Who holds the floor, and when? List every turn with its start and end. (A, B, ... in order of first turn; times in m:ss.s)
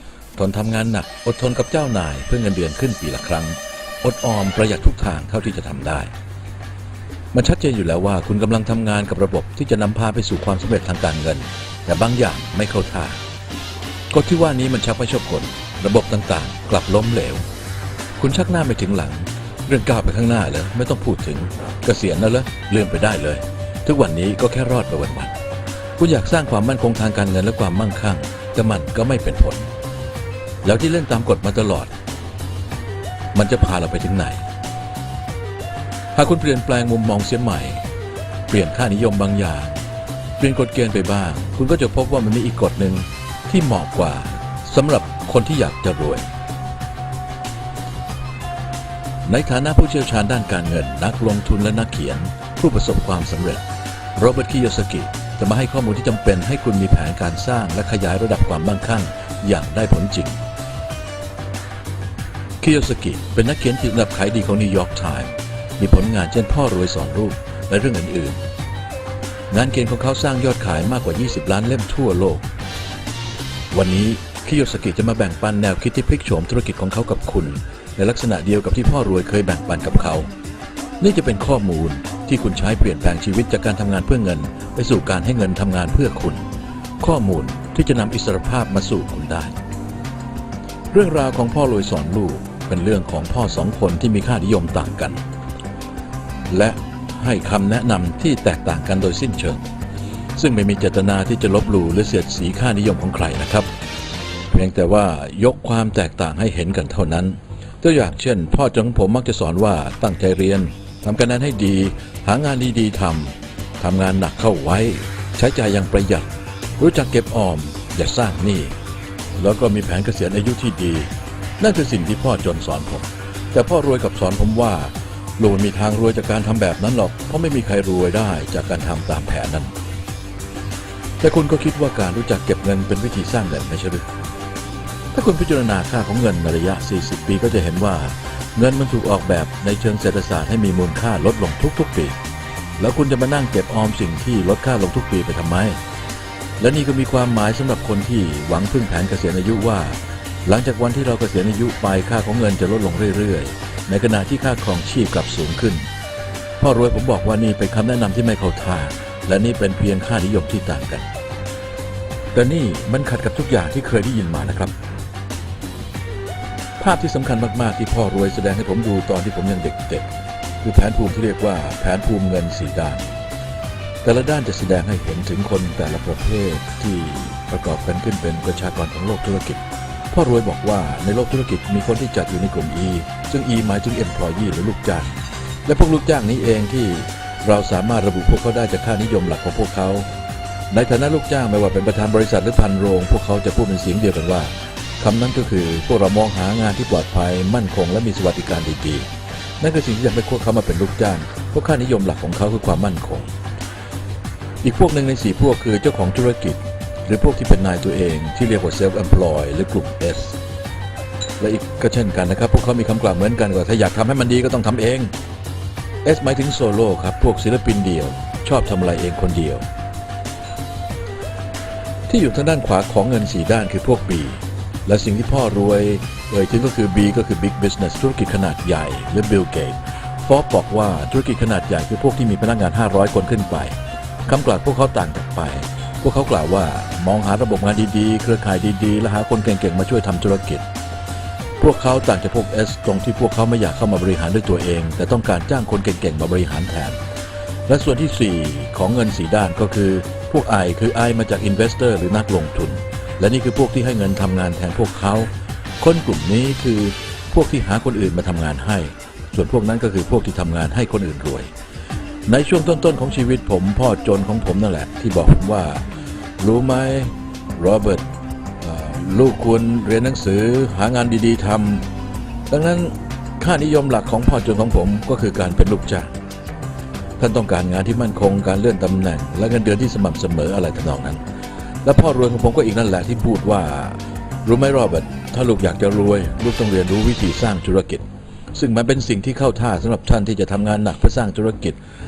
0:00.4-0:06.1 A
0:07.3-0:13.2 A
0:14.1-0:17.4 A
0:18.2-0:25.4 A
0:26.0-0:29.7 A
0:30.6-0:31.9 A
0:33.3-0:34.4 A
0:36.1-0:37.8 A
0:38.5-0:39.8 A
0:40.4-0:46.3 A
0:49.2-0:53.6 A
0:54.2-1:00.4 A
1:02.6-1:08.4 A
1:09.5-1:12.4 A
1:13.7-1:20.3 A
1:21.0-1:26.4 A
1:27.0-1:29.5 A
1:30.9-1:35.2 A
1:36.5-1:39.6 A
1:40.4-1:43.7 A
1:44.5-1:58.7 A
1:59.4-2:09.7 A
2:11.2-2:14.0 A
2:15.1-2:22.2 A
2:22.8-2:25.8 A
2:26.6-2:35.8 A
2:36.6-2:41.1 A
2:42.3-2:44.7 A
2:46.8-2:50.0 A
2:50.6-2:53.1 A
2:54.0-3:05.1 A
3:05.6-3:10.1 A
3:10.7-3:19.1 A
3:19.6-3:23.3 A
3:24.6-3:30.4 A
3:31.4-3:35.1 A
3:36.0-3:39.6 A
3:42.1-3:53.8 A
3:54.3-4:00.7 A
4:01.6-4:07.0 A
4:07.7-4:21.5 A
4:22.3-4:25.8 A
4:26.4-4:28.0 A
4:28.6-4:31.8 A
4:32.5-4:36.1 A
4:37.2-4:41.2 A
4:41.8-4:51.8 A